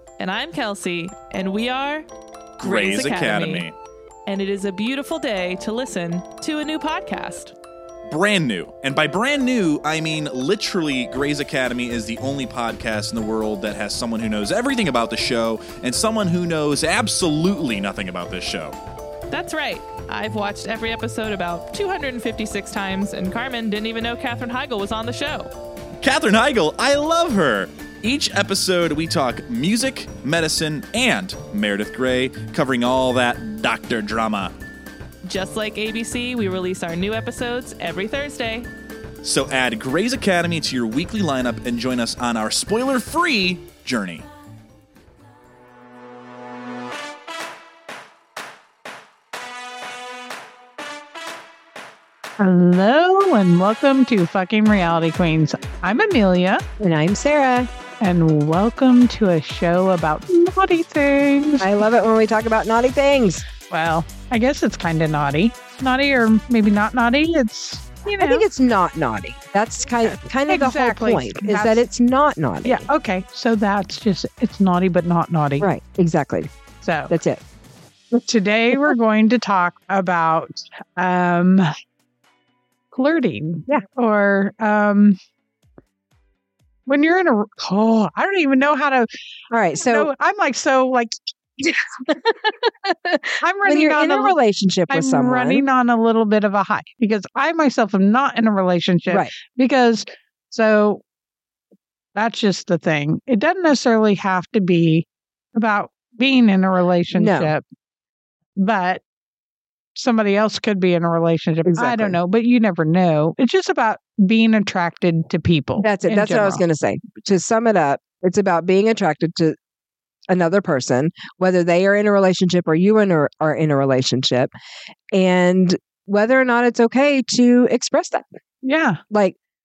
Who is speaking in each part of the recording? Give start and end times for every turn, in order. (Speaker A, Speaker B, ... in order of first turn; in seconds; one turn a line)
Speaker A: 0.2-2.1
Speaker B: 2.6-3.7
Speaker A: 2.6-3.7
Speaker A: 4.3-7.5
Speaker B: 8.1-18.8
Speaker A: 19.3-25.5
Speaker B: 26.0-34.5
Speaker A: 35.2-38.7
Speaker B: 39.2-44.3
Speaker C: 52.4-56.6
Speaker D: 56.8-57.7
Speaker C: 58.0-61.7
Speaker D: 61.6-63.4
Speaker C: 63.7-68.5
Speaker D: 68.2-72.9
Speaker C: 70.5-71.9
Speaker C: 72.6-75.7
Speaker D: 75.6-76.5
Speaker C: 76.8-77.2
Speaker D: 77.1-77.4
Speaker C: 78.2-81.7
Speaker C: 82.9-85.2
Speaker C: 86.9-89.1
Speaker D: 89.5-90.1
Speaker C: 89.9-92.0
Speaker D: 92.1-95.7
Speaker C: 93.4-94.3
Speaker C: 94.9-101.0
Speaker C: 102.2-107.6
Speaker D: 107.1-107.5
Speaker C: 108.6-109.0
Speaker C: 110.0-116.6
Speaker D: 111.7-112.2
Speaker D: 115.8-119.6
Speaker D: 120.3-124.5
Speaker D: 125.1-128.3
Speaker C: 128.6-129.0
Speaker D: 129.1-129.4